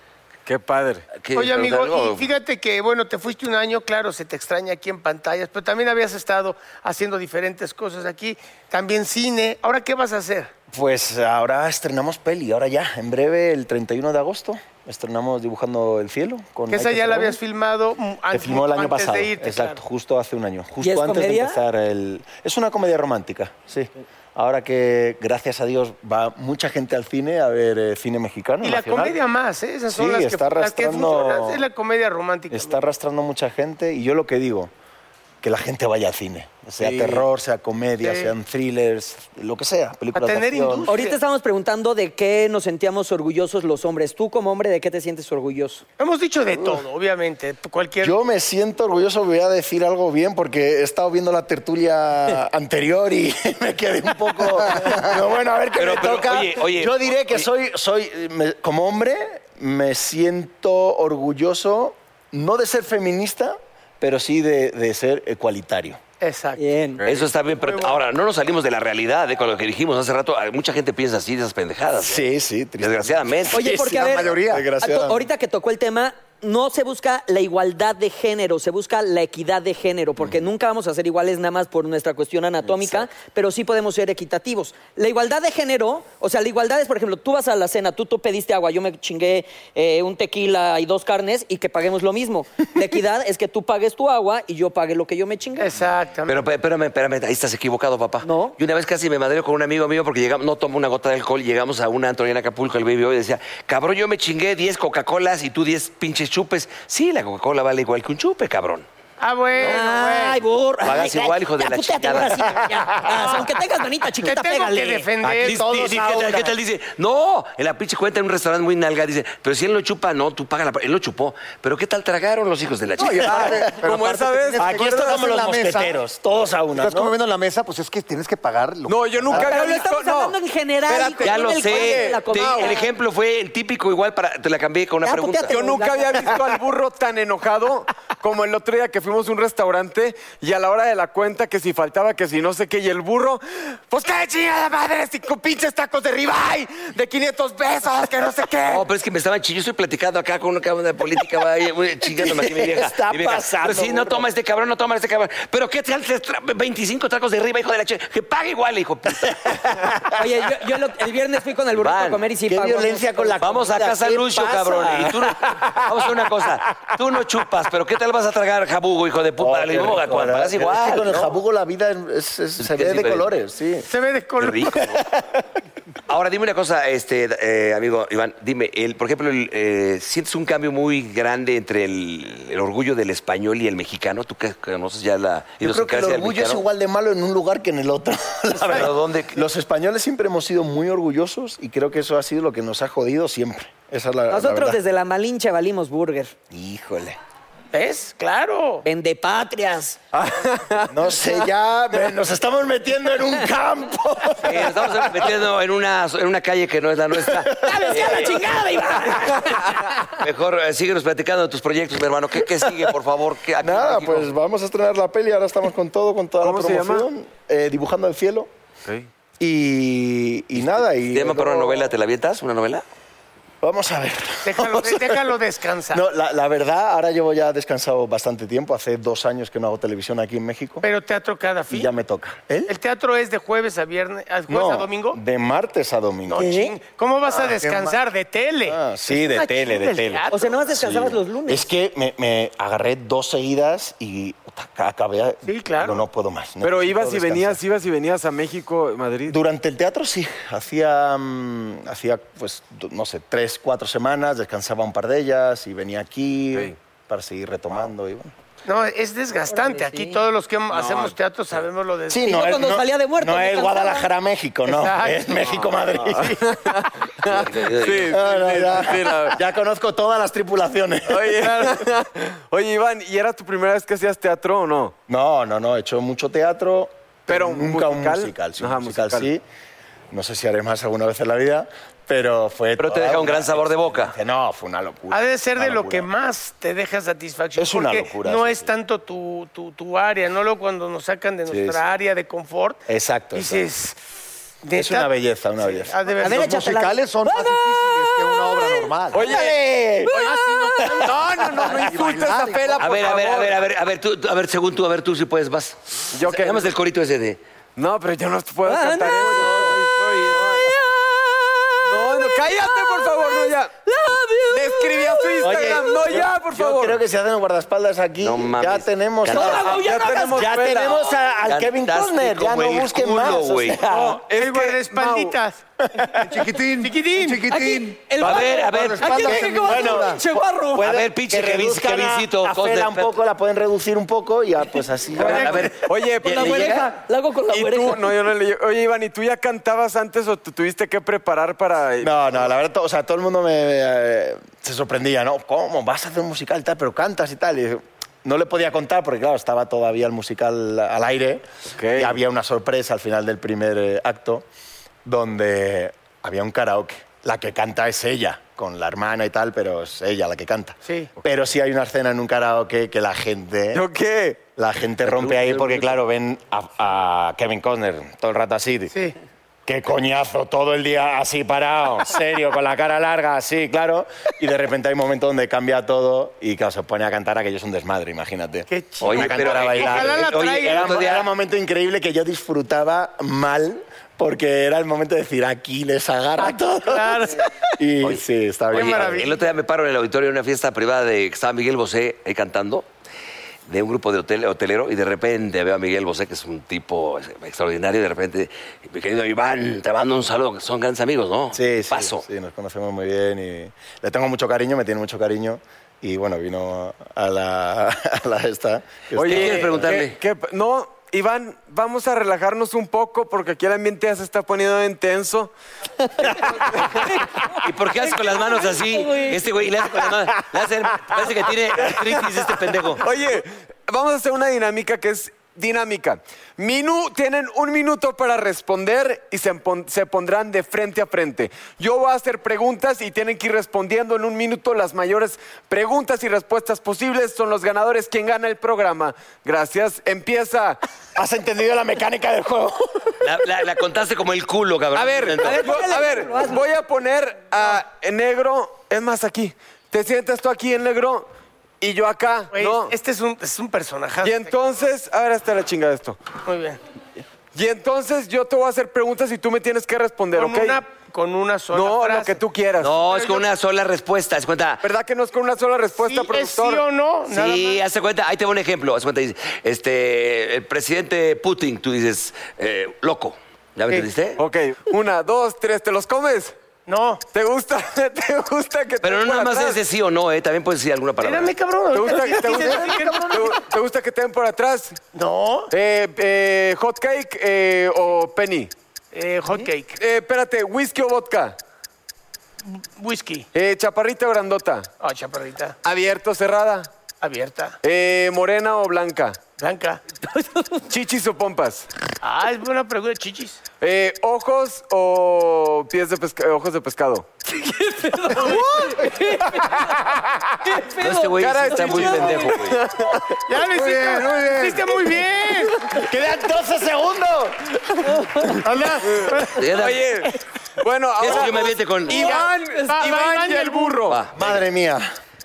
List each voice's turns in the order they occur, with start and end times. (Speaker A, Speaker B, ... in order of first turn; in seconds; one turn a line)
Speaker A: 0.5-1.1
Speaker B: 1.2-2.3
Speaker C: 1.3-10.5
Speaker D: 10.7-17.4
Speaker C: 16.7-19.8
Speaker D: 18.3-29.2
Speaker E: 20.8-21.6
Speaker C: 28.6-32.8
Speaker D: 29.9-31.6
Speaker D: 32.5-34.7
Speaker D: 35.4-40.9
Speaker A: 36.8-37.2
Speaker C: 38.0-38.3
Speaker C: 40.1-41.2
Speaker E: 40.9-45.8
Speaker C: 46.0-48.1
Speaker D: 46.5-46.8
Speaker D: 48.0-66.0
Speaker F: 54.7-55.0
Speaker B: 55.8-57.5
Speaker C: 66.2-66.6
Speaker E: 66.6-67.0
Speaker A: 67.0-67.3
Speaker B: 67.0-72.2
Speaker C: 67.6-68.0
Speaker D: 72.0-75.3
Speaker B: 72.8-73.8
Speaker E: 73.5-95.8
Speaker F: 73.6-74.7
Speaker C: 95.6-96.4
Speaker B: 96.2-108.8
Speaker E: 98.2-98.5
Speaker C: 109.2-110.4
Speaker E: 109.6-115.1
Speaker B: 110.8-112.6
Speaker C: 113.1-113.5
Speaker C: 114.2-115.7
Speaker D: 115.2-116.5
Speaker B: 115.4-123.7
Speaker F: 123.0-126.0
Speaker D: 123.2-123.8
Speaker A: 123.3-125.2
Speaker D: 124.5-127.1
Speaker F: 126.7-129.5
Speaker A: 128.9-130.3
Speaker E: 129.3-132.9
Speaker A: 130.9-132.8
Speaker B: 131.2-135.5
Speaker E: 135.0-136.4
Speaker A: 135.5-148.8
Speaker B: 148.7-159.9
Speaker D: 152.1-154.2
Speaker D: 159.4-160.0
Speaker E: 160.1-163.5
Speaker B: 161.8-162.2
Speaker D: 162.5-166.3
Speaker B: 163.4-171.3
Speaker D: 169.4-173.9
Speaker B: 172.6-173.3
Speaker C: 173.8-174.8
Speaker B: 174.4-175.0
Speaker D: 174.9-175.2
Speaker B: 176.1-186.6
Speaker D: 185.6-194.8
Speaker B: 188.6-189.4
Speaker E: 194.3-196.3
Speaker D: 196.5-197.2
Speaker C: 197.7-198.8
Speaker E: 198.8-200.0
Speaker A: 200.2-200.9
Speaker D: 200.9-205.4
Speaker B: 204.4-214.3
Speaker D: 207.2-208.3
Speaker E: 207.6-210.0
Speaker A: 209.4-209.7
Speaker D: 213.6-218.5
Speaker A: 216.4-217.1
Speaker D: 219.4-221.9
Speaker B: 220.6-222.8
Speaker D: 223.6-225.3
Speaker C: 224.4-226.0
Speaker D: 225.9-230.8
Speaker C: 230.8-231.9
Speaker D: 231.7-232.7
Speaker C: 232.7-235.2
Speaker D: 234.5-236.6
Speaker C: 236.3-240.7
Speaker E: 236.3-236.8
Speaker D: 237.3-238.0
Speaker D: 238.7-247.6
Speaker E: 240.3-241.7
Speaker C: 245.4-246.0
Speaker A: 246.6-249.3
Speaker D: 249.3-258.3
Speaker C: 258.6-262.5
Speaker E: 259.5-260.2
Speaker A: 260.7-261.1
Speaker D: 262.1-266.4
Speaker E: 262.2-264.1
Speaker C: 264.7-265.3
Speaker A: 265.4-269.4
Speaker B: 267.2-268.2
Speaker D: 268.1-271.8
Speaker A: 271.1-274.9
Speaker D: 275.1-279.4
Speaker A: 277.3-279.3
Speaker D: 280.1-286.1
Speaker B: 282.8-284.1
Speaker C: 285.1-292.8
Speaker D: 287.6-288.7
Speaker D: 291.5-291.9
Speaker D: 292.9-293.6
Speaker C: 293.3-294.0
Speaker C: 294.6-296.5
Speaker D: 294.8-296.6
Speaker E: 296.2-298.9
Speaker F: 296.3-299.2
Speaker A: 299.1-299.6
Speaker D: 299.2-301.1
Speaker E: 300.1-301.0
Speaker A: 300.1-303.6
Speaker C: 300.2-301.2
Speaker F: 301.6-302.8
Speaker B: 302.8-307.4
Speaker A: 306.1-306.7
Speaker A: 307.8-310.7
Speaker E: 308.6-309.7
Speaker B: 309.1-310.6
Speaker E: 310.6-316.0
Speaker A: 311.8-313.7
Speaker A: 314.5-317.0
Speaker D: 315.4-324.1
Speaker B: 318.2-319.8
Speaker E: 319.3-320.5
Speaker A: 319.4-321.1
Speaker B: 321.4-323.8
Speaker A: 323.9-325.4
Speaker C: 323.9-325.6
Speaker D: 325.9-326.4
Speaker F: 326.2-330.2
Speaker C: 326.8-327.5
Speaker E: 327.5-330.9
Speaker B: 328.2-329.2
Speaker D: 329.1-335.7
Speaker B: 330.8-333.2
Speaker A: 335.2-336.9
Speaker B: 335.2-336.7
Speaker E: 336.2-338.1
Speaker A: 337.5-342.5
Speaker D: 342.0-354.4
Speaker A: 351.8-352.2
Speaker D: 355.0-363.9
Speaker C: 360.8-361.1
Speaker A: 363.7-364.4
Speaker D: 364.5-368.9
Speaker B: 365.1-365.9
Speaker D: 369.6-389.3
Speaker C: 378.7-381.1
Speaker B: 379.0-381.3
Speaker C: 386.4-387.4
Speaker B: 388.0-392.8
Speaker C: 388.7-389.4
Speaker B: 393.7-402.2
Speaker D: 401.5-409.9
Speaker A: 409.1-415.5
Speaker B: 409.2-410.2
Speaker A: 416.2-417.0
Speaker E: 417.0-419.4
Speaker B: 417.6-423.0
Speaker A: 421.9-422.3
Speaker A: 422.9-440.8
Speaker D: 441.1-443.1
Speaker B: 443.2-445.7
Speaker A: 444.9-451.3
Speaker E: 445.4-446.6
Speaker A: 451.8-452.9
Speaker C: 452.5-454.5
Speaker A: 454.2-456.2
Speaker C: 456.4-456.8
Speaker A: 457.5-460.8
Speaker C: 460.3-462.4
Speaker A: 461.7-463.0
Speaker B: 462.8-464.8
Speaker C: 463.0-463.4
Speaker A: 464.8-466.8
Speaker C: 466.0-467.8
Speaker B: 467.3-474.4
Speaker A: 474.4-476.6
Speaker C: 476.9-477.2
Speaker A: 477.3-479.8
Speaker B: 479.0-481.5
Speaker C: 481.2-483.5
Speaker A: 481.9-485.0
Speaker F: 482.5-483.3
Speaker C: 485.1-485.7
Speaker A: 485.7-488.7
Speaker C: 489.1-490.0
Speaker A: 490.0-491.5
Speaker C: 492.6-493.5
Speaker A: 493.5-494.9
Speaker C: 495.0-495.8
Speaker A: 495.8-496.9
Speaker C: 497.2-497.8
Speaker A: 497.8-499.4
Speaker C: 499.6-500.0
Speaker E: 500.2-500.9
Speaker A: 500.9-501.9
Speaker C: 502.2-503.6
Speaker A: 503.8-507.3
Speaker E: 507.5-510.1
Speaker E: 510.6-512.6
Speaker B: 511.0-512.8
Speaker A: 511.4-513.4
Speaker C: 513.5-515.8
Speaker F: 513.7-515.1
Speaker D: 515.9-518.0
Speaker E: 518.0-518.5
Speaker C: 518.6-519.8
Speaker A: 519.0-524.2
Speaker B: 519.5-520.0
Speaker B: 521.2-522.3
Speaker C: 522.1-524.0
Speaker B: 524.1-524.6
Speaker D: 524.3-525.1